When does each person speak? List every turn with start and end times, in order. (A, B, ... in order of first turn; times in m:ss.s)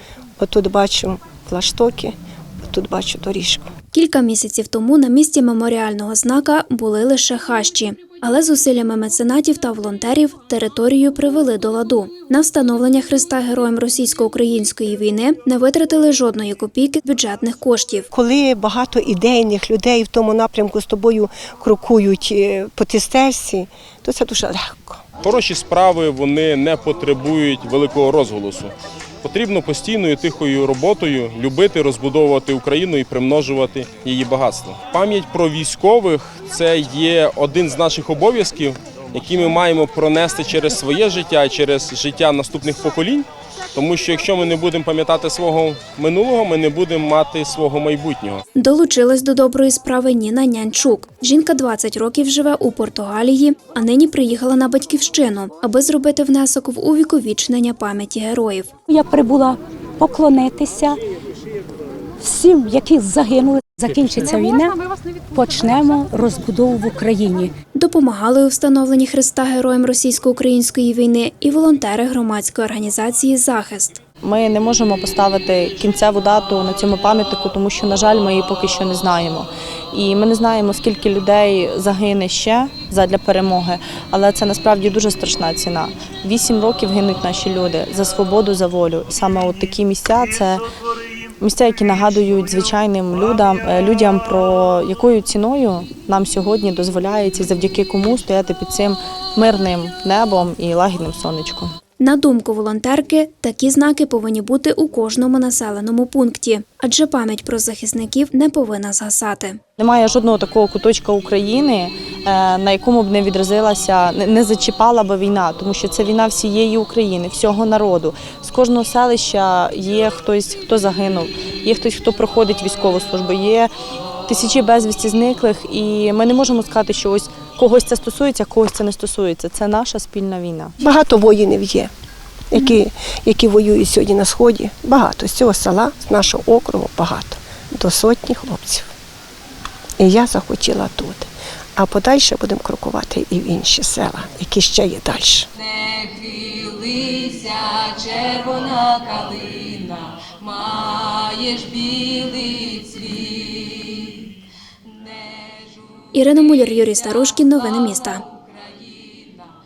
0:00.4-0:02.1 A
0:02.6-0:03.7 A
0:03.9-0:18.1 B
0:18.1-0:25.0 A
0:25.2-0:48.4 C
0:48.6-0:58.7 B
0:58.9-1:01.0 D
1:02.2-1:04.8 D
1:05.3-1:07.6 D
1:07.8-1:14.0 B
1:14.2-1:30.6 E
1:31.4-1:41.7 E
1:42.0-1:49.6 B
1:49.8-2:03.7 E
2:04.3-2:10.8 E
2:10.8-2:11.9 A
2:12.5-2:18.9 A
2:20.0-2:25.5 A
2:27.7-2:30.9 F
2:32.5-2:32.8 E
2:36.1-2:38.2 B